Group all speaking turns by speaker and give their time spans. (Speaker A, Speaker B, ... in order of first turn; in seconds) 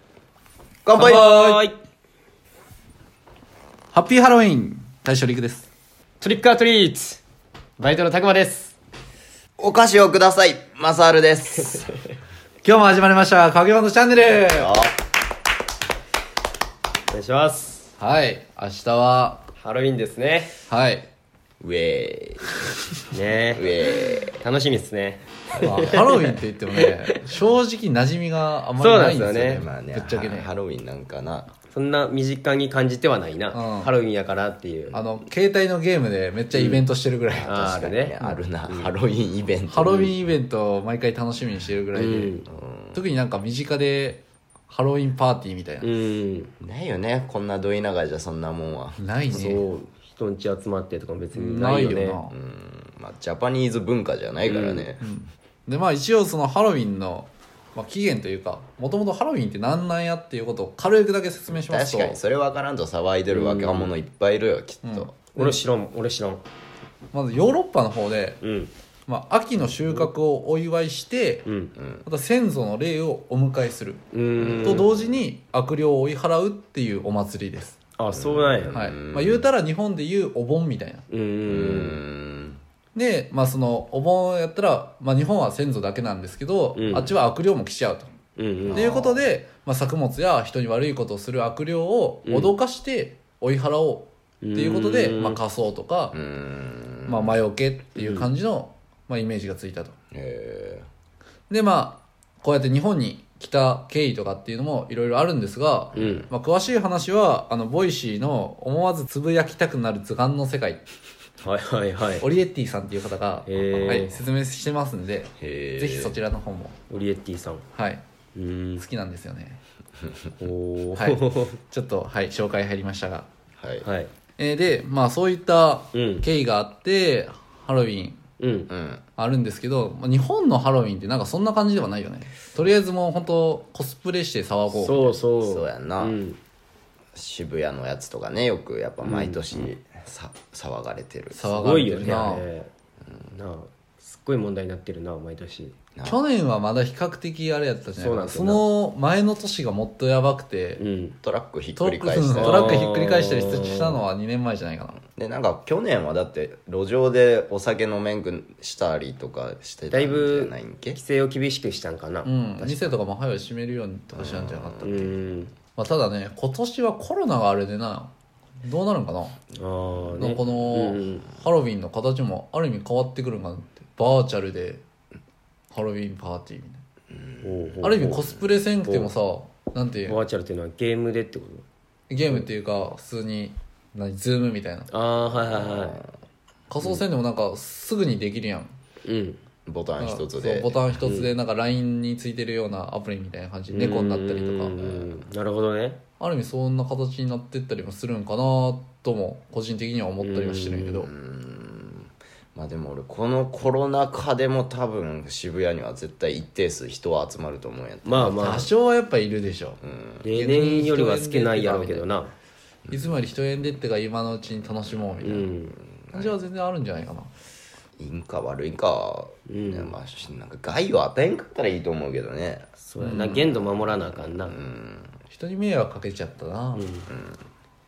Speaker A: 0.8-1.3, 9.6-11.9, 14.5-14.9, 21.6-22.7, 23.5-24.4, 29.4-31.5, 37.4-40.1, 42.5-43.0, 46.6-49.0, 52.3-55.0, 61.5-65.1, 71.8-72.0, 74.4-75.0, 78.1-79.5, 81.5-82.6, 88.6-89.1, 96.1-97.4, 100.1-100.9, 105.9-106.3, 115.4-116.2, 123.6-123.9, 128.7-129.0, 135.4-136.2, 137.1-141.5, 151.2-152.8, 155.2-161.0, 164.1-165.1, 177.1-177.8, 185.3-186.1, 189.7-190.8, 194.8-195.3, 201.1-208.4, 209.8-210.3, 212.9-213.1, 215.9-216.3, 218.0-222.7, 223.8-225.1, 227.1-227.4
Speaker B: 1.0-1.8, 6.2-7.2, 7.8-8.7, 17.1-17.9, 19.6-20.5, 23.1-27.2, 28.7-29.6, 31.7-35.0, 36.5-36.8, 37.4-38.9, 41.9-42.4, 45.8-46.5, 49.3-52.2, 54.4-54.9, 63.3-63.9, 65.3-66.4, 68.4-68.7, 71.5-71.7, 74.1-74.8, 78.0-78.8, 81.1-82.0, 86.7-87.2, 88.4-89.1, 92.2-92.5, 94.4-95.4, 97.9-98.3, 106.0-106.2, 111.4-112.2, 113.5-114.1, 116.9-117.6, 118.3-118.8, 120.4-121.6, 123.8-124.1, 125.9-126.3, 128.4-128.7, 134.7-136.4, 139.0-139.7, 141.5-142.7, 143.3-145.8, 147.9-148.6, 150.8-151.2, 152.3-154.0, 159.9-163.0, 164.8-165.5, 169.6-171.3, 177.4-178.3, 178.8-179.1, 180.1-181.6, 184.9-186.0, 189.0-189.4, 191.0-191.3, 193.7-196.0, 200.2-201.1, 208.0-208.7, 210.2-212.3, 215.2-215.7, 219.5-219.9, 222.8-224.6, 226.7-227.1
Speaker C: 1.0-1.6, 3.9-5.7, 12.6-14.7, 18.0-19.5, 20.7-21.1, 25.6-30.5, 33.5-33.9, 34.9-37.6, 39.7-45.9, 49.0-49.6, 51.3-52.3, 55.0-62.2, 64.8-65.6, 67.1-68.4, 69.1-71.5, 72.0-74.0, 74.6-77.8, 78.7-81.0, 82.9-88.1, 88.7-96.2, 97.0-100.0, 101.5-110.8, 112.2-116.8, 117.7-118.0, 118.8-119.6, 121.0-123.3, 124.4-128.2, 129.2-135.1, 141.3-142.4, 146.0-150.8, 151.8-155.0, 162.2-165.2, 165.7-168.1, 168.6-169.4, 170.2-174.8, 175.7-176.8, 177.8-180.2, 182.1-184.9, 186.7-188.7, 190.0-194.8, 196.2-201.1, 208.3-209.8, 210.3-212.1, 212.9-215.5, 216.1-217.3, 223.0-223.5, 225.3-226.9